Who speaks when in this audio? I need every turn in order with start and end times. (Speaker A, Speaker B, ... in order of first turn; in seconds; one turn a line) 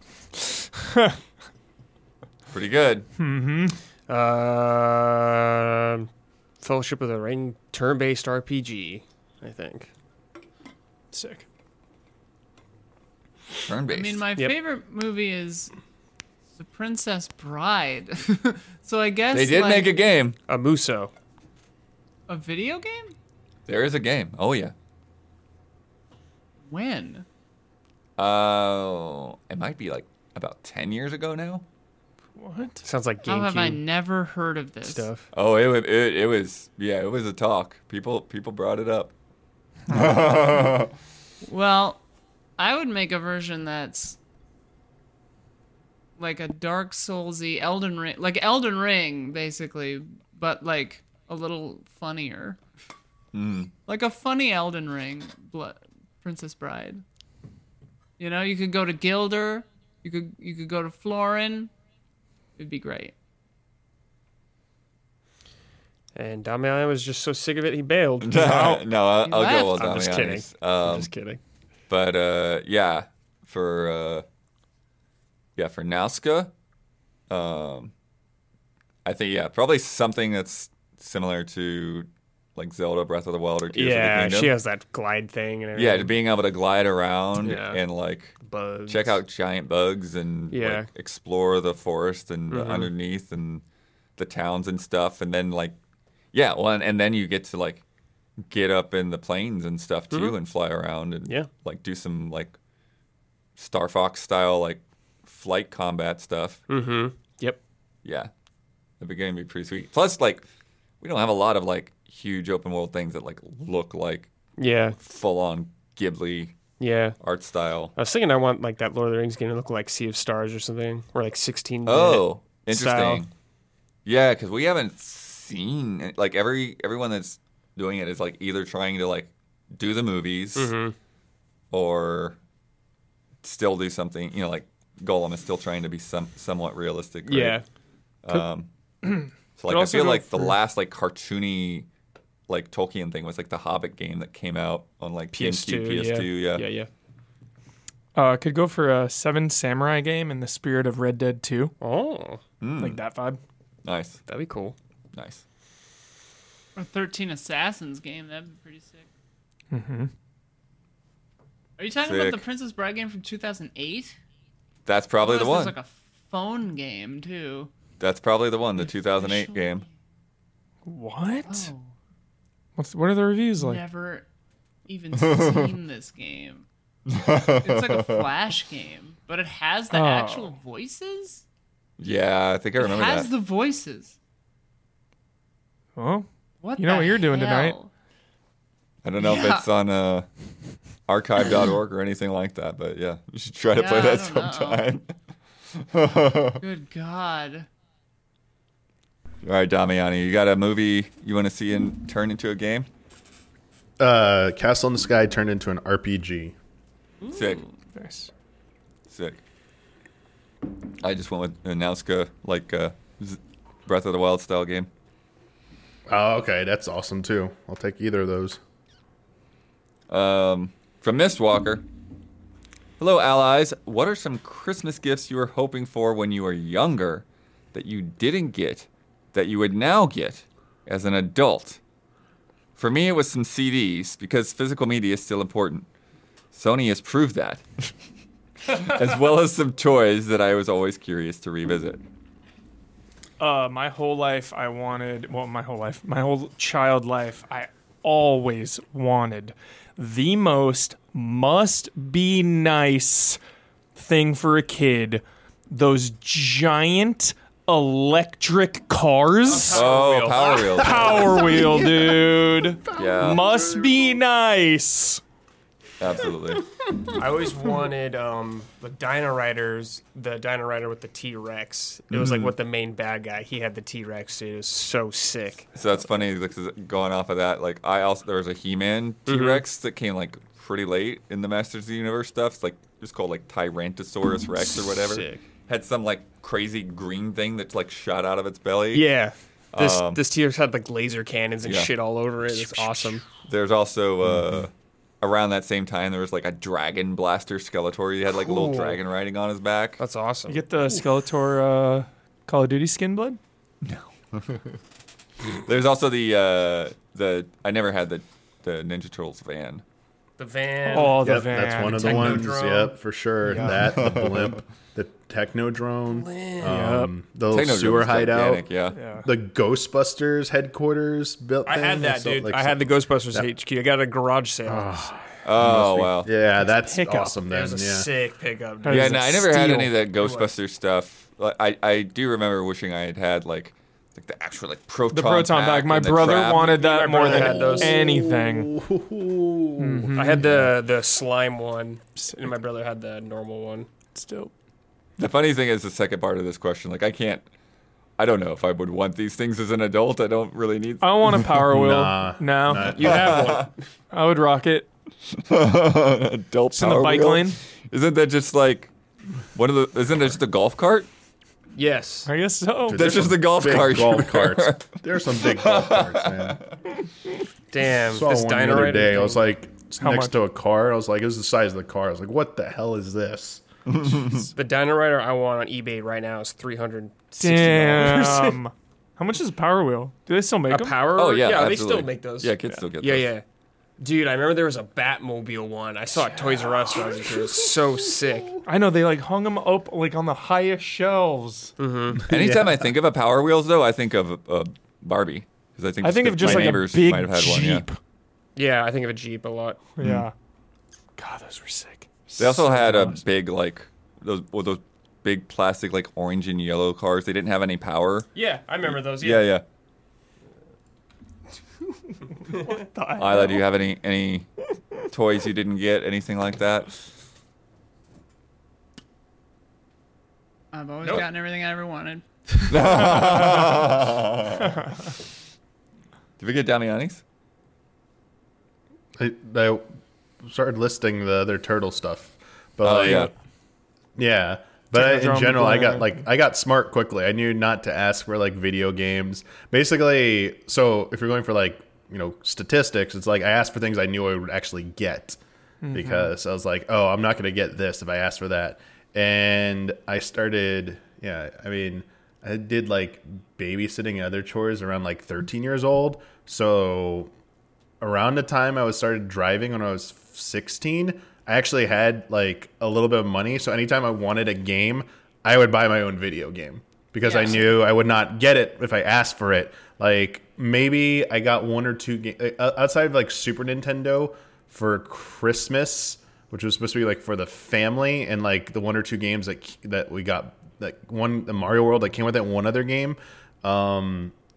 Speaker A: 0.3-1.2
Speaker B: 2.5-3.1
Speaker A: 3.2-3.8
Speaker C: 4.1-6.1
Speaker C: 6.6-9.9
Speaker A: 11.1-11.4
Speaker B: 13.7-14.2
Speaker D: 13.9-15.7
Speaker D: 16.6-20.0
Speaker B: 19.3-20.4
Speaker C: 20.5-21.1
Speaker D: 22.3-23.1
Speaker B: 23.7-24.7
Speaker D: 26.7-27.2
Speaker B: 28.2-31.6
Speaker A: 32.4-32.9
Speaker C: 32.8-33.8
Speaker D: 33.3-35.1
Speaker C: 34.9-35.3
Speaker B: 35.3-39.1
Speaker B: 39.9-40.9
Speaker D: 41.4-42.0
Speaker D: 42.6-44.2
Speaker D: 46.2-52.6
Speaker B: 53.3-53.7
Speaker D: 53.9-57.0
Speaker D: 58.2-61.7
Speaker D: 62.6-63.1
Speaker C: 66.1-68.8
Speaker B: 68.2-71.1
Speaker D: 69.2-69.8
Speaker C: 69.7-71.4
Speaker B: 71.9-74.2
Speaker B: 75.5-76.5
Speaker B: 77.3-77.9
Speaker B: 79.0-84.5
Speaker C: 83.7-86.1
Speaker B: 85.8-93.6
Speaker C: 87.4-87.8
Speaker C: 88.4-89.2
Speaker C: 90.5-90.9
Speaker C: 92.5-92.9
Speaker B: 94.2-95.8
Speaker B: 96.3-97.8
Speaker B: 98.5-102.6
Speaker B: 103.6-106.6
Speaker C: 106.7-107.6
Speaker B: 108.0-108.3
Speaker B: 109.0-110.4
Speaker B: 111.0-114.3
Speaker C: 114.6-115.0
Speaker B: 115.0-116.5
Speaker C: 116.8-117.2
Speaker B: 117.2-117.9
Speaker C: 118.0-123.2
Speaker B: 121.8-123.3
Speaker B: 124.0-130.7
Speaker C: 130.6-130.9
Speaker B: 131.7-132.4
Speaker B: 133.4-137.6
Speaker C: 137.2-137.6
Speaker B: 138.2-138.7
Speaker A: 139.1-140.2
Speaker B: 139.6-141.9
Speaker C: 139.7-140.5
Speaker B: 142.5-146.7
Speaker C: 145.3-146.9
Speaker A: 148.1-151.7
Speaker C: 151.8-152.4
Speaker B: 152.6-153.0
Speaker A: 152.8-153.4
Speaker B: 153.8-154.2
Speaker C: 154.2-154.8
Speaker B: 155.1-155.4
Speaker D: 156.8-159.1
Speaker A: 159.7-160.1
Speaker D: 161.8-164.2
Speaker B: 162.1-162.4
Speaker B: 164.8-165.8
Speaker D: 165.2-167.7
Speaker B: 168.0-169.8
Speaker D: 168.8-169.8
Speaker A: 170.8-171.7
Speaker D: 171.4-171.9
Speaker A: 172.8-173.8
Speaker D: 173.6-174.3
Speaker D: 174.9-176.7
Speaker B: 177.1-178.2
Speaker D: 177.5-181.4
Speaker A: 179.9-180.5
Speaker B: 182.0-183.3
Speaker D: 182.8-184.2
Speaker A: 185.9-186.3
Speaker D: 186.6-187.9
Speaker A: 186.8-187.8
Speaker B: 189.0-190.3
Speaker D: 189.2-189.7
Speaker B: 191.1-195.1
Speaker D: 193.7-194.8
Speaker B: 195.8-196.6
Speaker D: 196.6-197.7
Speaker B: 199.4-202.9
Speaker E: 204.0-206.6
Speaker D: 207.2-207.6
Speaker B: 207.3-207.6
Speaker A: 207.9-208.3
Speaker B: 209.1-209.4
Speaker B: 211.0-214.9
Speaker E: 216.1-218.6
Speaker B: 220.1-221.8
Speaker B: 223.0-231.8
Speaker B: 232.8-235.9
Speaker B: 236.5-237.9
Speaker B: 238.6-242.0
Speaker A: 243.4-253.4
Speaker A: 253.9-259.9
Speaker C: 259.4-261.9
Speaker B: 259.7-261.5
Speaker A: 260.7-265.2
Speaker B: 262.9-263.4
Speaker B: 266.0-266.7
Speaker C: 267.0-275.7
Speaker B: 272.1-272.5
Speaker B: 275.7-289.1
Speaker C: 279.3-279.6
Speaker C: 284.7-285.4
Speaker C: 288.9-293.2
Speaker B: 289.7-290.2
Speaker B: 291.6-291.9
Speaker B: 292.4-300.0
Speaker C: 298.4-299.0
Speaker C: 300.0-300.7
Speaker A: 300.5-303.4
Speaker B: 303.8-304.8
Speaker B: 305.5-309.8
Speaker C: 310.4-312.9
Speaker A: 310.9-312.6
Speaker E: 310.9-318.6
Speaker A: 313.4-313.9
Speaker B: 314.0-314.6
Speaker C: 316.1-316.8
Speaker A: 316.6-317.1
Speaker B: 317.5-319.0
Speaker A: 318.9-319.3
Speaker E: 319.2-323.5
Speaker C: 321.6-325.2
Speaker E: 324.6-328.1
Speaker B: 325.4-326.3
Speaker A: 326.6-327.4
Speaker C: 327.4-329.4
Speaker A: 328.8-329.9
Speaker B: 328.9-336.7
Speaker C: 330.2-330.5
Speaker A: 335.1-338.7
Speaker C: 336.5-338.3
Speaker E: 337.2-340.7
Speaker A: 339.8-340.5
Speaker C: 340.1-343.9
Speaker A: 342.2-342.5
Speaker A: 344.1-344.5
Speaker B: 345.2-347.4
Speaker B: 348.2-351.4
Speaker A: 351.0-352.9
Speaker E: 351.6-353.5
Speaker C: 352.9-353.9
Speaker B: 353.0-353.7
Speaker A: 354.1-354.9
Speaker B: 355.3-358.9
Speaker A: 356.7-357.6
Speaker B: 359.5-361.1
Speaker C: 361.8-362.3
Speaker A: 362.2-363.0
Speaker E: 362.8-366.6
Speaker B: 362.9-366.7
Speaker C: 367.7-369.4
Speaker E: 368.1-373.6
Speaker A: 370.0-370.3
Speaker B: 373.9-374.5
Speaker C: 374.5-378.6
Speaker A: 377.4-381.0
Speaker C: 380.7-383.4
Speaker B: 381.1-383.3
Speaker C: 384.0-388.6
Speaker A: 386.2-386.8
Speaker A: 388.6-391.7
Speaker C: 391.8-392.4
Speaker A: 392.3-392.6
Speaker B: 392.3-397.8
Speaker A: 396.0-398.0
Speaker C: 398.6-399.9
Speaker A: 400.0-400.3
Speaker B: 400.0-400.2
Speaker A: 401.1-403.2
Speaker B: 402.4-408.3
Speaker C: 408.3-409.5
Speaker B: 408.8-409.6
Speaker A: 412.5-413.6
Speaker B: 413.2-414.5
Speaker B: 415.1-416.9
Speaker D: 420.7-423.4
Speaker B: 422.7-425.1
Speaker B: 426.4-427.2
Speaker E: 429.2-429.9
Speaker E: 430.4-433.3
Speaker B: 432.8-433.3
Speaker E: 434.1-445.4
Speaker A: 434.9-436.1
Speaker A: 445.8-446.3
Speaker E: 445.9-457.3
Speaker E: 458.0-484.3
Speaker D: 467.2-467.7